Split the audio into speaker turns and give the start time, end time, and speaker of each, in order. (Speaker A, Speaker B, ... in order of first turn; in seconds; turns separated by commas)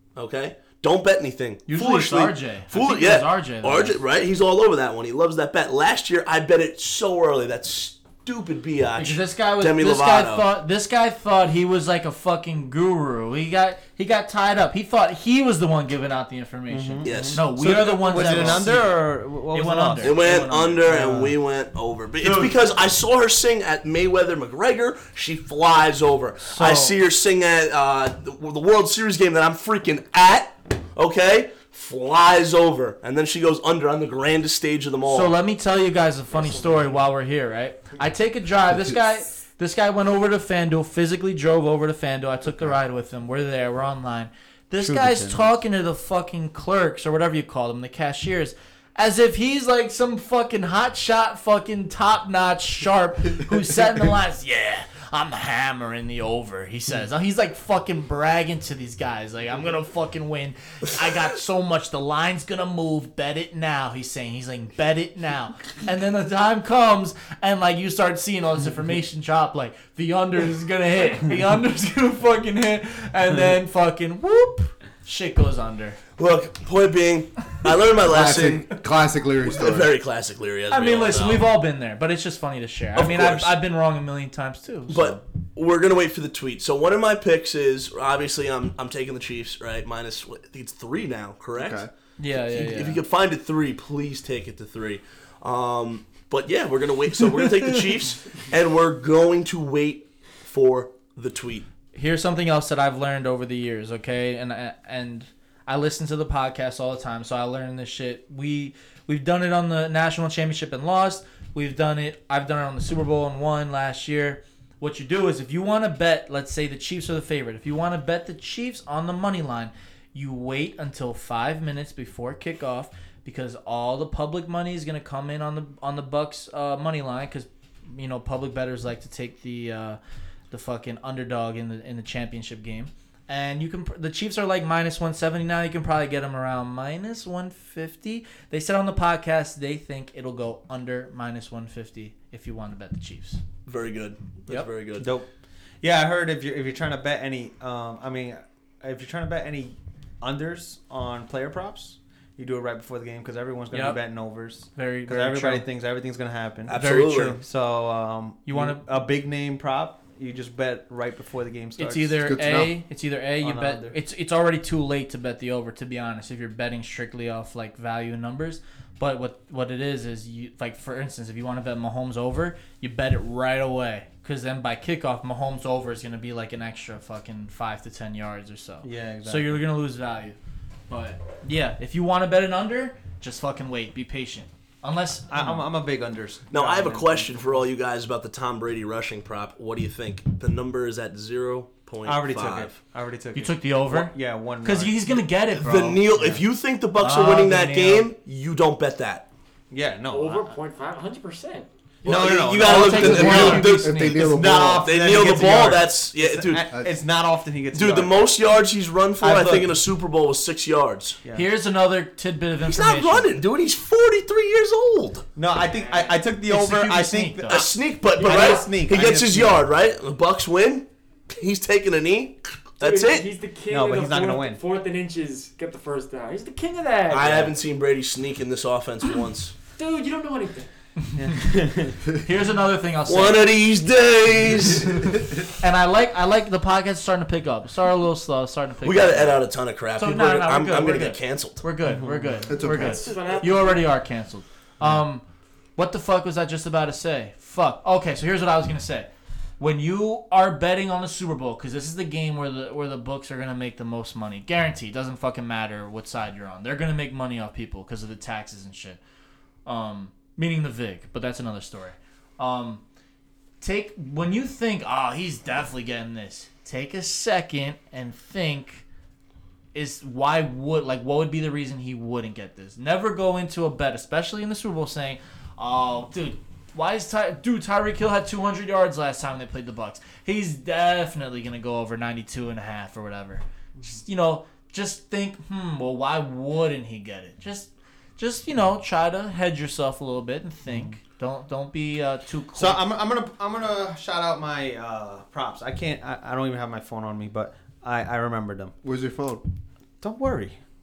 Speaker A: 0.1-10.4, Speaker B: 1.7-4.0, Speaker B: 9.0-20.3, Speaker C: 16.7-21.4, Speaker A: 17.0-17.5, Speaker A: 18.1-18.7, Speaker A: 20.0-35.3, Speaker B: 26.5-26.9, Speaker B: 35.0-76.0, Speaker C: 44.8-45.5, Speaker A: 76.2-78.8, Speaker D: 78.0-79.9, Speaker A: 79.4-81.5, Speaker B: 80.7-85.2, Speaker A: 83.0-83.5, Speaker A: 84.9-91.8, Speaker D: 91.5-91.9, Speaker B: 92.2-93.0, Speaker A: 92.4-101.7, Speaker B: 101.9-130.0, Speaker B: 130.5-143.4, Speaker A: 143.7-145.1, Speaker C: 145.0-145.3, Speaker C: 145.8-162.4, Speaker B: 153.7-154.0, Speaker B: 154.7-155.7, Speaker A: 156.7-157.4, Speaker B: 156.7-157.4, Speaker B: 158.4-158.8, Speaker B: 161.8-180.4, Speaker D: 162.2-162.7, Speaker C: 163.4-164.0, Speaker C: 178.8-179.6, Speaker B: 180.9-185.6, Speaker C: 185.3-187.4, Speaker A: 186.5-192.8, Speaker C: 192.0-195.0, Speaker B: 193.3-196.4, Speaker A: 195.6-199.3, Speaker B: 197.0-198.1, Speaker C: 199.7-200.5, Speaker E: 200.1-201.7, Speaker A: 202.0-206.7, Speaker C: 202.0-208.3, Speaker B: 202.6-204.1, Speaker D: 202.7-204.9, Speaker A: 207.7-211.2, Speaker C: 209.2-209.8, Speaker B: 211.3-213.3, Speaker A: 212.6-215.3, Speaker C: 215.4-219.7, Speaker E: 215.6-216.2, Speaker B: 216.4-217.7, Speaker A: 217.5-223.3, Speaker E: 218.2-218.8, Speaker E: 222.8-227.5, Speaker C: 223.7-224.6, Speaker A: 227.1-229.6, Speaker E: 229.7-230.7, Speaker C: 231.1-232.0, Speaker B: 232.2-233.5, Speaker A: 233.1-235.3, Speaker B: 235.6-239.4, Speaker A: 238.8-241.6, Speaker B: 240.0-245.2, Speaker C: 241.8-242.4, Speaker D: 242.5-243.0, Speaker E: 242.6-243.9, Speaker B: 245.8-259.0, Speaker B: 259.7-262.8, Speaker B: 263.6-268.8, Speaker B: 269.7-292.8, Speaker C: 290.7-290.9, Speaker C: 292.5-298.7, Speaker D: 298.8-299.4, Speaker C: 300.0-300.6